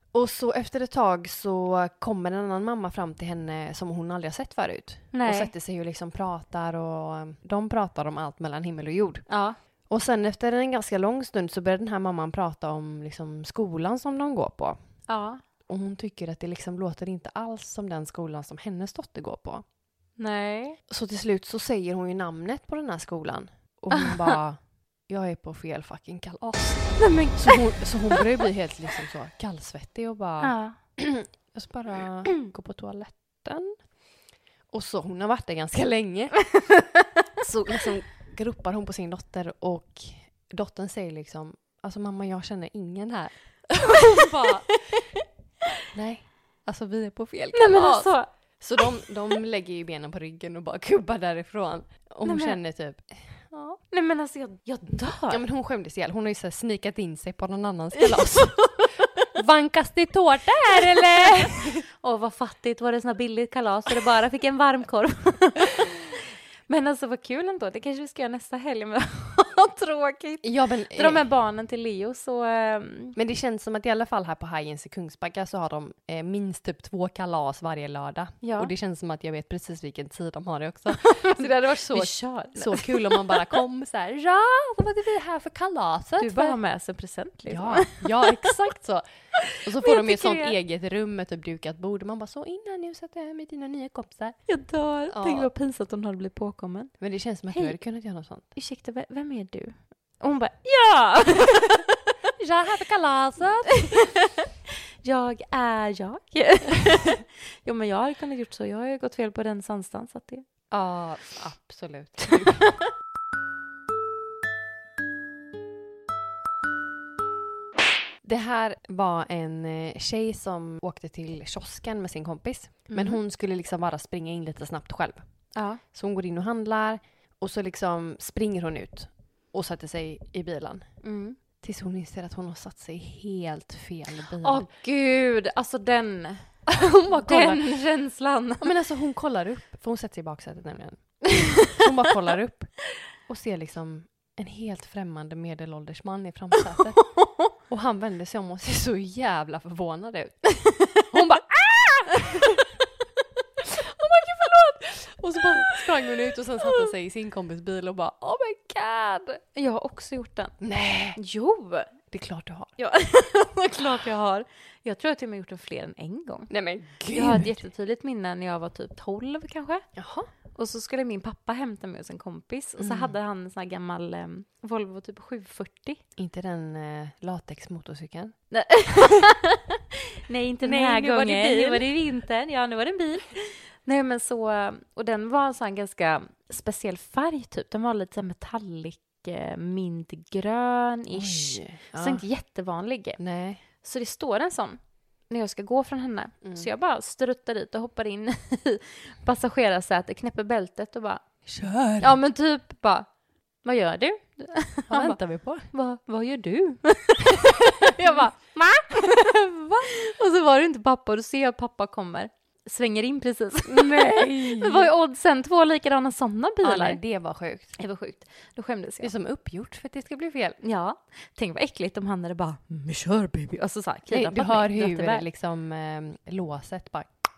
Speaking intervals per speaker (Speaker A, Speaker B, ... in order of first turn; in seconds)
Speaker A: 0.1-9.2, 9.9-14.8, 15.7-19.6, 20.9-33.9, 34.7-36.6, 37.4-44.8, 45.9-53.5, 55.3-58.8, 59.3-61.8, 70.4-71.3, 73.1-86.6, 87.5-94.4, 95.1-95.5, 97.0-98.5, 102.4-104.0, 110.7-112.7, 118.2-130.9, 131.6-134.7, 136.7-137.8, 138.6-152.5, 154.0-159.4, 160.6-161.2, 162.1-162.7, 166.5-167.6, 169.9-170.3, 172.8-173.2, 176.2-178.4, 180.6-181.8, 191.1-192.2, 193.2-193.6, 196.4-196.7, 201.4-202.1, 204.9-205.7, 213.7-214.9, 216.6-217.8, 219.0-220.6, 224.1-227.1
Speaker B: 5.1-5.5, 9.3-9.6, 15.1-15.4, 20.2-20.8, 24.0-24.3, 27.0-28.2, 30.4-30.8, 47.5-48.8, 52.2-52.6, 53.5-55.4, 58.1-59.1, 60.5-73.2, 78.4-78.7, 81.0-83.4, 86.2-88.5, 89.7-90.5, 94.5-97.0, 98.5-101.9, 105.0-110.5, 122.9-123.2, 125.5-125.8, 131.0-131.4, 134.4-138.7, 147.1-147.5, 150.8-151.2, 155.4-155.8, 156.6-156.9, 159.5-160.6, 161.2-162.0, 162.8-169.9, 170.4-176.0, 178.5-201.2, 202.0-203.1, 203.6-217.0, 217.8-219.1, 220.6-225.2